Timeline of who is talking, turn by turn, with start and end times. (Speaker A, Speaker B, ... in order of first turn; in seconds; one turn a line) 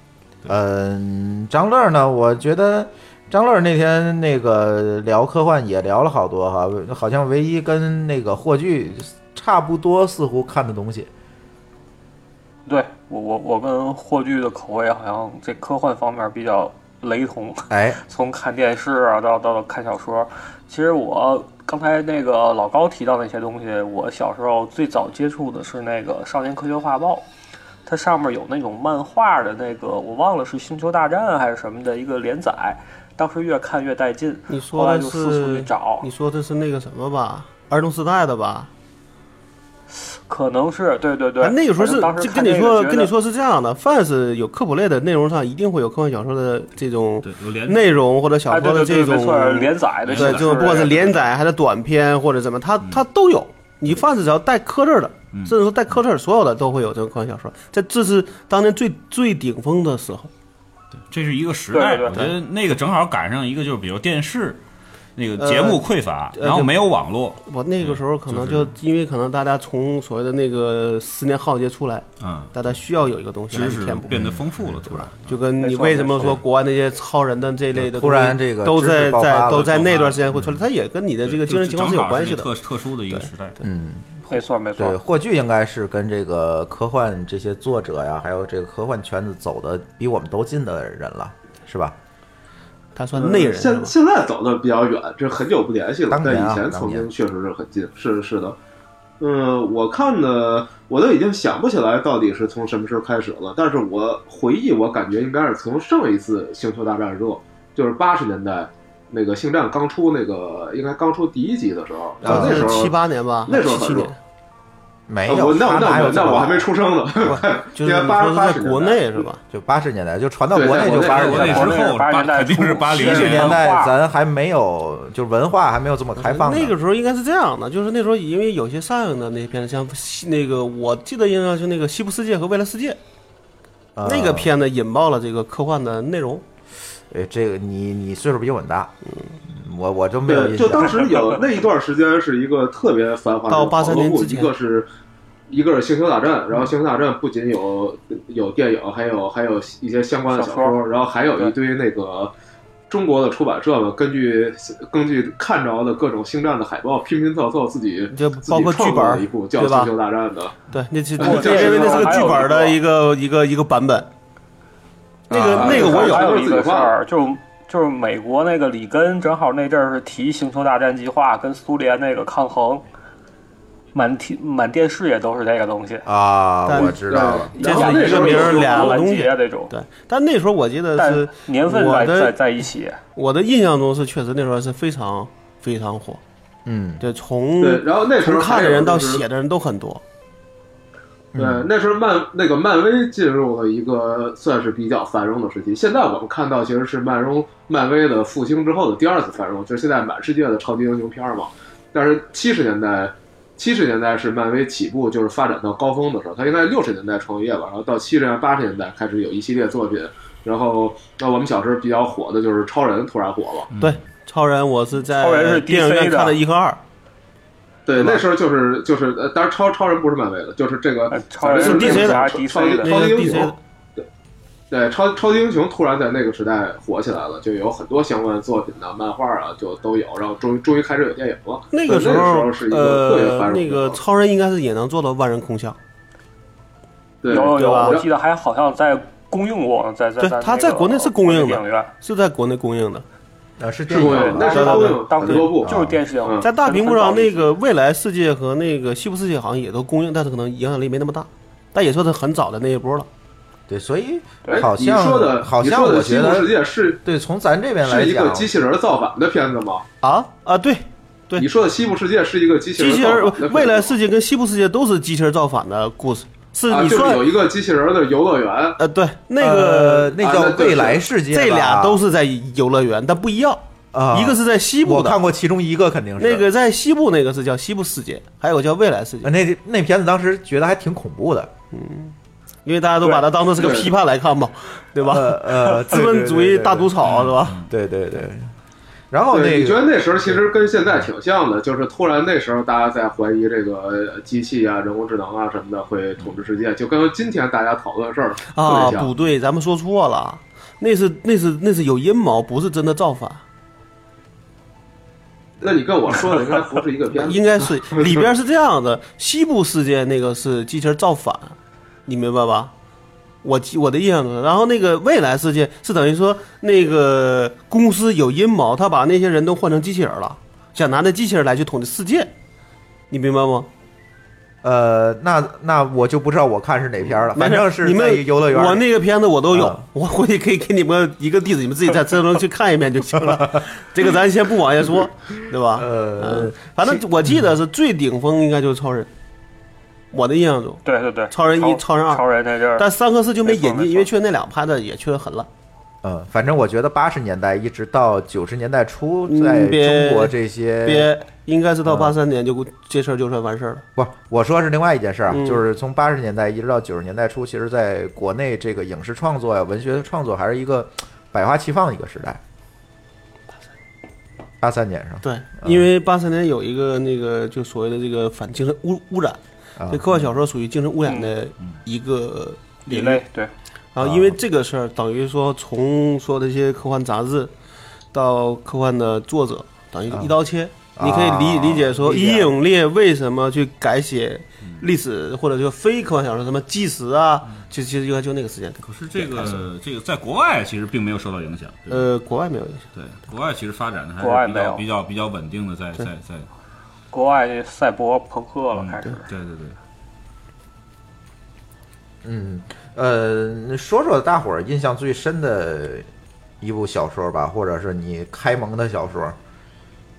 Speaker A: 0.5-11.1
Speaker B: 12.7-27.2
Speaker A: 17.7-18.0
Speaker B: 27.9-36.1
Speaker C: 34.5-38.7
Speaker B: 39.9-43.1
Speaker C: 41.4-60.3
Speaker D: 47.2-47.9
Speaker B: 48.5-51.1
Speaker D: 50.0-51.2
Speaker D: 61.0-64.6
Speaker B: 61.7-62.3
Speaker D: 65.2-68.7
Speaker C: 65.4-66.8
Speaker C: 67.4-74.1
Speaker D: 72.2-72.7
Speaker D: 73.5-75.4
Speaker A: 74.1-75.0
Speaker C: 75.1-82.5
Speaker B: 75.6-76.4
Speaker A: 77.7-80.2
Speaker D: 81.2-83.6
Speaker A: 83.6-84.2
Speaker B: 84.3-85.0
Speaker A: 84.8-92.0
Speaker C: 93.0-93.9
Speaker E: 93.1-98.6
Speaker A: 96.1-97.1
Speaker E: 99.2-114.1
Speaker A: 112.2-112.9
Speaker C: 112.2-114.2
Speaker A: 115.1-116.7
Speaker E: 115.2-119.2
Speaker C: 117.3-119.4
Speaker A: 119.5-121.8
Speaker E: 120.5-121.7
Speaker D: 120.9-123.6
Speaker B: 120.9-123.9
Speaker A: 123.0-126.7
Speaker C: 126.2-133.0
Speaker A: 133.9-134.5
Speaker C: 134.0-136.4
Speaker A: 137.1-138.9
Speaker A: 139.5-141.0
Speaker E: 140.3-144.9
Speaker C: 143.5-144.5
Speaker E: 145.5-152.3
Speaker B: 150.3-150.8
Speaker E: 152.9-160.6
Speaker C: 158.1-159.9
Speaker C: 160.7-164.1
Speaker E: 161.2-162.5
Speaker B: 161.2-162.8
Speaker C: 165.3-166.3
Speaker E: 165.3-167.0
Speaker B: 165.5-172.8
Speaker B: 173.9-176.0
Speaker A: 176.1-177.5
Speaker C: 176.7-177.0
Speaker E: 177.1-179.0
Speaker C: 177.5-182.3
Speaker B: 177.6-179.7
Speaker B: 181.0-183.0
Speaker C: 183.1-186.2
Speaker A: 186.7-187.0
Speaker C: 187.0-190.0
Speaker E: 187.6-189.2
Speaker A: 191.3-191.7
Speaker E: 191.3-213.7
Speaker D: 213.7-214.0
Speaker C: 213.8-216.8
Speaker B: 215.1-216.4
Speaker E: 217.8-223.6
Speaker B: 221.1-223.1
Speaker C: 221.6-222.3
Speaker C: 222.8-223.6
Speaker E: 224.7-234.0
Speaker C: 231.7-235.8
Speaker E: 237.2-238.1
Speaker B: 237.3-241.9
Speaker C: 237.3-238.0
Speaker C: 240.2-243.0
Speaker A: 243.6-244.7
Speaker E: 243.9-246.4
Speaker B: 244.0-247.5
Speaker C: 244.4-245.4
Speaker A: 245.6-246.0
Speaker C: 246.4-253.1
Speaker A: 253.7-258.5
Speaker E: 254.5-257.0
Speaker E: 257.8-259.8
Speaker C: 260.0-261.4
Speaker E: 261.4-263.9
Speaker C: 262.8-267.2
Speaker E: 266.7-268.8
Speaker C: 268.8-270.1
Speaker A: 269.4-272.0
Speaker E: 270.2-271.0
Speaker C: 271.3-275.2
Speaker A: 273.9-276.4
Speaker C: 276.2-279.3
Speaker A: 279.2-281.5
Speaker C: 281.7-287.6
Speaker E: 283.1-283.9
Speaker A: 285.0-288.5
Speaker D: 287.1-287.6
Speaker A: 289.1-290.6
Speaker E: 289.3-299.1
Speaker C: 298.5-303.4
Speaker E: 305.6-308.3
Speaker C: 307.1-312.7
Speaker C: 313.4-322.3
Speaker C: 323.1-323.7
Speaker A: 324.6-328.9
Speaker C: 327.3-339.1
Speaker A: 329.5-329.8
Speaker A: 335.8-337.3
Speaker C: 340.1-342.2
Speaker B: 340.8-342.9
Speaker C: 342.8-345.5
Speaker B: 343.4-344.1
Speaker A: 346.0-351.1
Speaker C: 349.3-353.9
Speaker A: 351.8-352.1
Speaker A: 353.9-362.4
Speaker C: 355.3-355.6
Speaker A: 364.6-365.9
Speaker C: 365.2-369.4
Speaker A: 369.8-370.3
Speaker C: 369.9-373.2
Speaker B: 371.0-371.3
Speaker B: 372.9-373.5
Speaker C: 373.9-377.5
Speaker A: 374.0-374.4
Speaker C: 378.1-389.6
Speaker A: 380.9-382.4
Speaker D: 388.8-392.1
Speaker C: 391.9-392.8
Speaker D: 392.9-396.5
Speaker B: 394.2-394.8
Speaker B: 397.1-399.2
Speaker D: 398.7-399.8
Speaker A: 402.2-406.1
Speaker A: 406.6-409.4